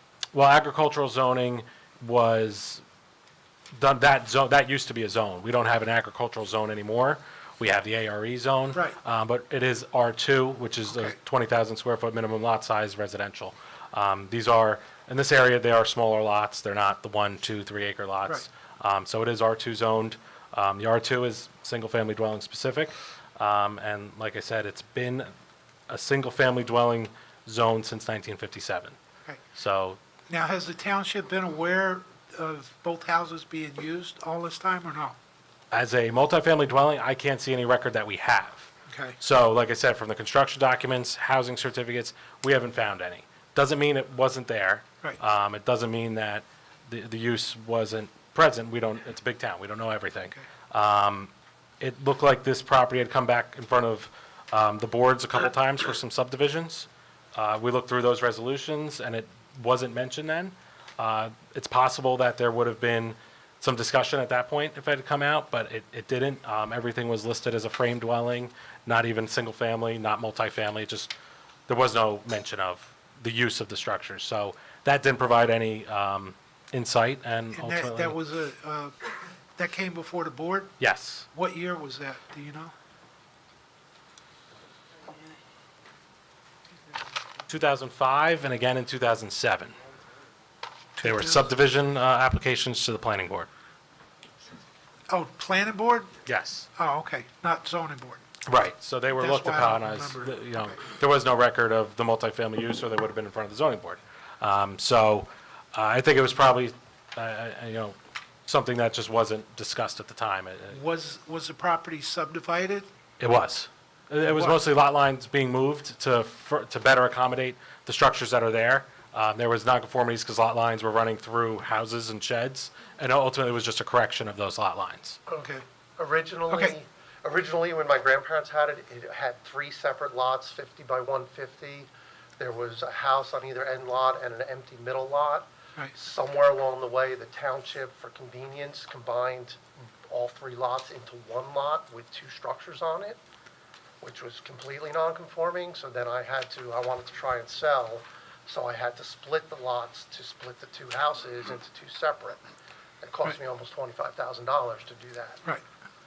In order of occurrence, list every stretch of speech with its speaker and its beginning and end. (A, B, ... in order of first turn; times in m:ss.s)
0:00.3-0:02.8 A
0:03.8-0:25.3 A
0:25.9-0:29.0 A
0:29.6-0:30.0 A
0:30.3-0:35.2 B
0:35.7-1:11.1 A
0:38.9-0:39.2 B
1:11.7-1:18.2 A
1:17.5-1:19.0 B
1:19.6-1:20.8 B
1:20.8-1:21.3 A
1:21.3-1:22.7 B
1:27.5-1:29.7 A
1:31.0-1:31.5 B
1:31.0-1:33.5 A
1:35.1-1:36.1 B
1:36.3-1:36.7 A
1:36.8-1:38.2 B
1:38.5-1:50.8 A
1:39.2-1:40.4 B
1:50.7-1:52.9 B
1:53.2-2:05.2 A
1:54.2-1:54.6 B
2:05.3-2:05.6 B
2:06.0-2:23.2 C
2:24.0-2:32.4 C
2:33.0-2:35.4 C